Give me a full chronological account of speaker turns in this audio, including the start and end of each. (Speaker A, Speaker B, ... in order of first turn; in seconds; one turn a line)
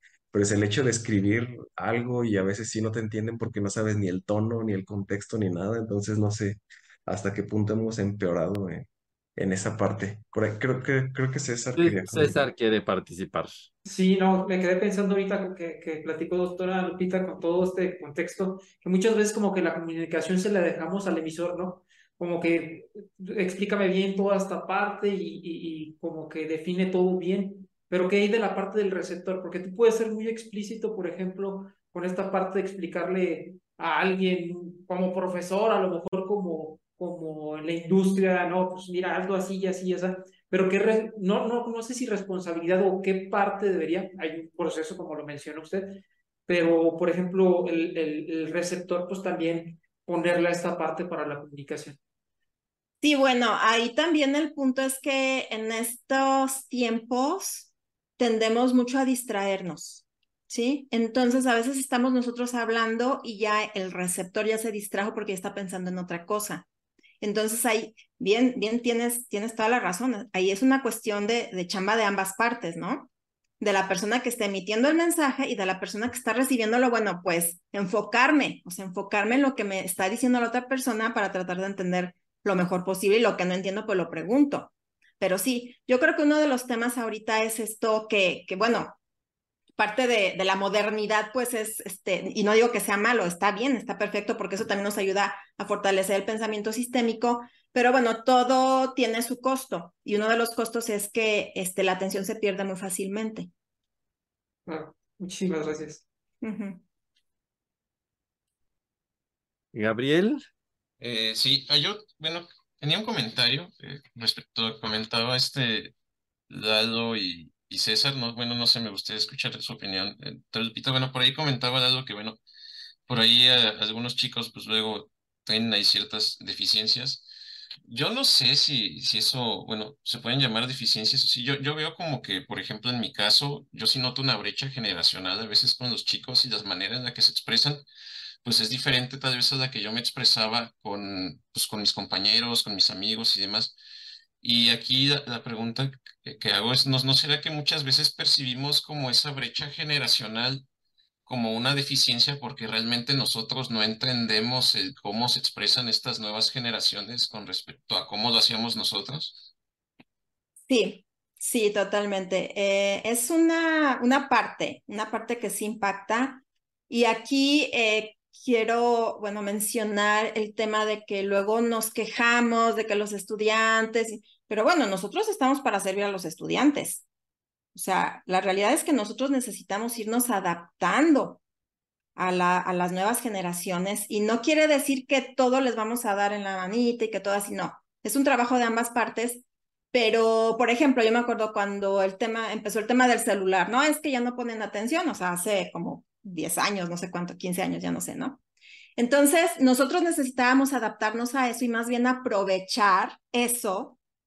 Speaker A: 0.3-12.4
Speaker B: 11.8-13.7
Speaker C: 13.8-52.0
Speaker D: 53.0-66.7
Speaker D: 67.2-73.1
Speaker D: 73.6-89.0
Speaker D: 89.8-103.5
Speaker C: 104.7-106.0
Speaker D: 106.4-106.8
Speaker B: 109.7-110.4
Speaker E: 111.0-115.9
Speaker E: 116.5-122.4
Speaker E: 123.1-127.2
Speaker E: 127.8-137.8
Speaker E: 138.4-143.7
Speaker E: 144.4-150.6
Speaker E: 151.2-159.4
Speaker D: 160.7-177.0
Speaker D: 177.7-181.4
Speaker D: 182.2-198.4
Speaker D: 198.9-204.0